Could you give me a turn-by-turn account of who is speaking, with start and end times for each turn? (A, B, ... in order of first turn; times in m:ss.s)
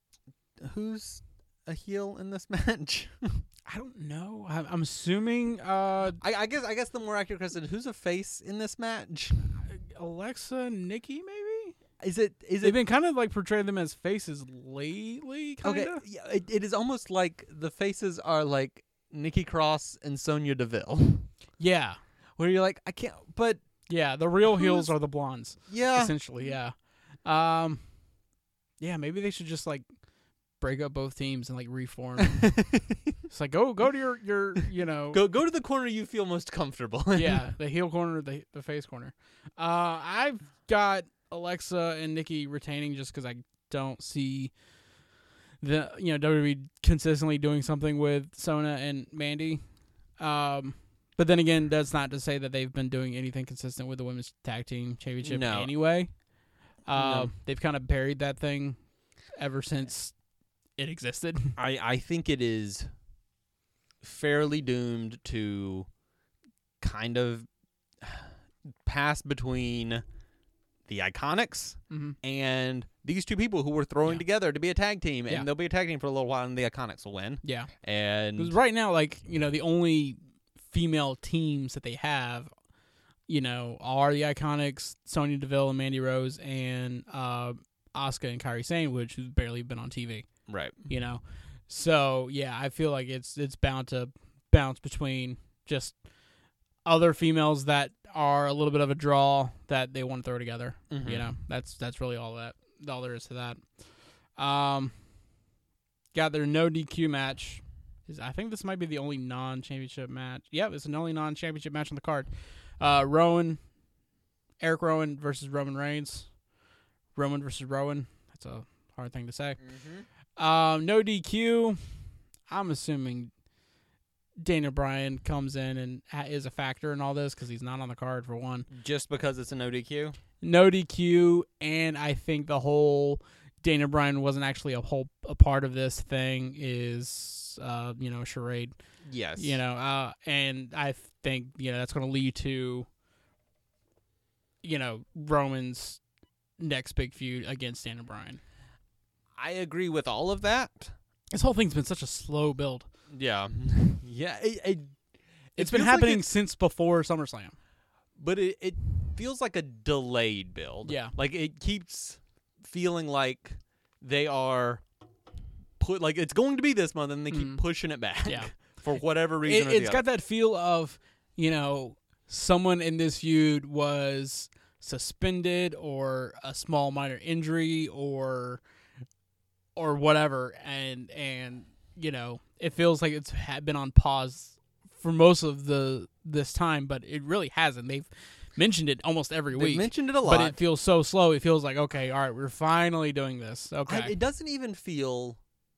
0:00.6-0:03.4 A
0:03.6-0:06.2 B
0:06.2-0:09.5 A
0:09.7-0:11.8 B
0:12.0-0:12.8 A
0:12.6-0:16.0 B
0:15.6-0:21.3 A
0:21.6-0:22.0 B
0:22.4-0:23.6 A
0:23.9-0:27.8 B
0:24.5-0:24.9 A
0:25.7-0:26.1 A
0:28.8-0:29.8 B
0:30.6-0:32.5 B
0:32.2-0:33.1 A
0:33.3-0:35.2 B
0:35.1-0:37.4 A
0:37.1-0:44.5 B
0:45.6-0:49.6 B
0:50.2-0:56.1 B
0:55.2-0:55.7 A
0:56.8-0:58.8 B
0:56.9-0:57.3 A
0:59.4-1:00.1 B
1:00.8-1:01.6 B
1:01.6-1:02.9 A
1:04.0-1:05.9 A
1:06.8-1:07.5 A
1:08.0-1:08.3 A
1:08.8-1:10.0 A
1:10.8-1:18.6 A
1:11.9-1:12.2 B
1:17.4-1:17.7 B
1:18.4-1:20.2 B
1:20.7-1:22.5 B
1:23.3-1:30.3 B
1:30.5-1:30.9 A
1:30.9-1:36.0 B
1:36.8-1:43.6 B
1:40.9-1:41.3 A
1:44.4-1:44.9 B
1:46.1-1:53.6 B
1:54.6-1:56.3 B
1:57.1-1:59.6 B
1:59.6-2:00.1 A
2:00.4-2:01.8 B
2:02.5-2:03.3 B
2:04.4-2:08.7 B
2:08.7-2:10.2 A
2:10.4-2:18.7 B
2:19.0-2:19.6 A
2:19.4-2:22.9 B
2:24.6-2:26.0 B
2:26.6-2:28.4 B
2:29.4-2:30.9 A
2:31.3-2:32.9 B
2:33.1-2:35.0 A
2:35.6-2:37.5 B
2:35.6-2:36.2 A
2:38.2-2:44.8 A
2:40.8-2:41.1 B
2:45.8-2:50.0 A
2:47.3-2:47.6 B
2:48.2-2:48.5 B
2:49.4-2:58.6 B
2:59.8-3:14.1 B
3:09.5-3:10.6 A
3:13.9-3:15.4 A